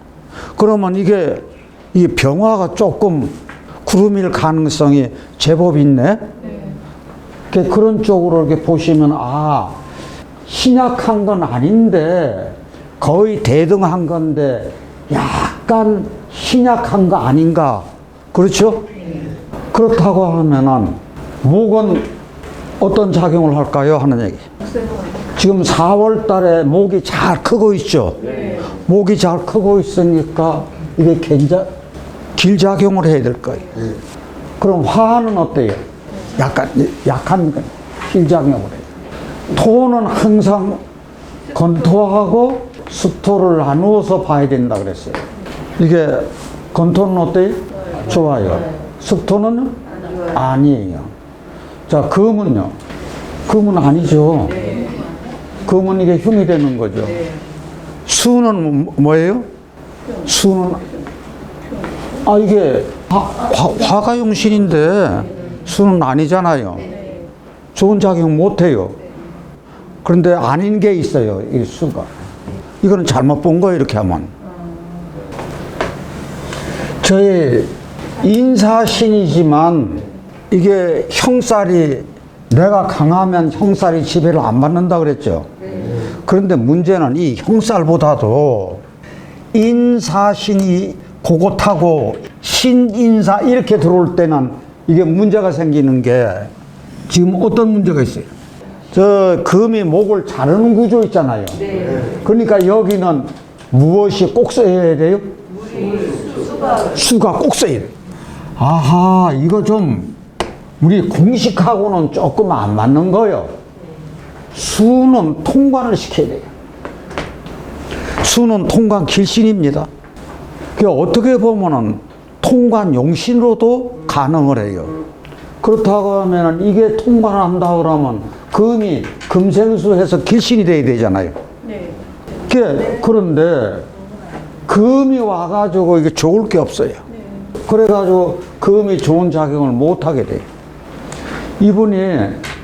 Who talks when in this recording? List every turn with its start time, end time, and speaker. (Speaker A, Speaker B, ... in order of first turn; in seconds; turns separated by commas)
Speaker A: 0.6-6.3, Speaker B: 6.4-6.8, Speaker A: 7.5-9.8, Speaker A: 10.5-18.9, Speaker A: 19.7-22.1, Speaker A: 22.8-24.5, Speaker B: 24.6-25.2, Speaker A: 25.4-31.7, Speaker B: 28.2-28.6, Speaker A: 32.4-33.8, Speaker A: 34.6-35.8, Speaker A: 36.4-38.9, Speaker A: 39.5-40.8, Speaker A: 41.5-45.2, Speaker A: 45.8-49.8, Speaker A: 50.3-51.1, Speaker A: 51.9-52.8, Speaker A: 53.5-54.8, Speaker B: 54.5-55.2, Speaker A: 55.6-57.2, Speaker A: 58.1-59.5, Speaker A: 60.2-60.9, Speaker A: 62.2-66.9, Speaker B: 66.8-67.3, Speaker A: 67.8-69.0, Speaker A: 70.0-72.1, Speaker A: 72.8-74.3, Speaker A: 77.0-85.5, Speaker A: 86.2-88.8, Speaker A: 89.5-96.5, Speaker A: 97.1-98.3, Speaker A: 98.9-105.4, Speaker B: 101.7-102.0, Speaker B: 105.7-106.8, Speaker A: 106.9-107.9, Speaker A: 108.6-110.2, Speaker A: 110.8-113.5, Speaker A: 114.5-116.5, Speaker A: 118.2-119.9, Speaker A: 120.8-125.0, Speaker A: 125.6-131.3, Speaker B: 131.6-132.0, Speaker A: 132.5-133.9, Speaker A: 134.7-137.0, Speaker B: 137.1-137.5, Speaker A: 137.7-140.4, Speaker A: 141.6-142.4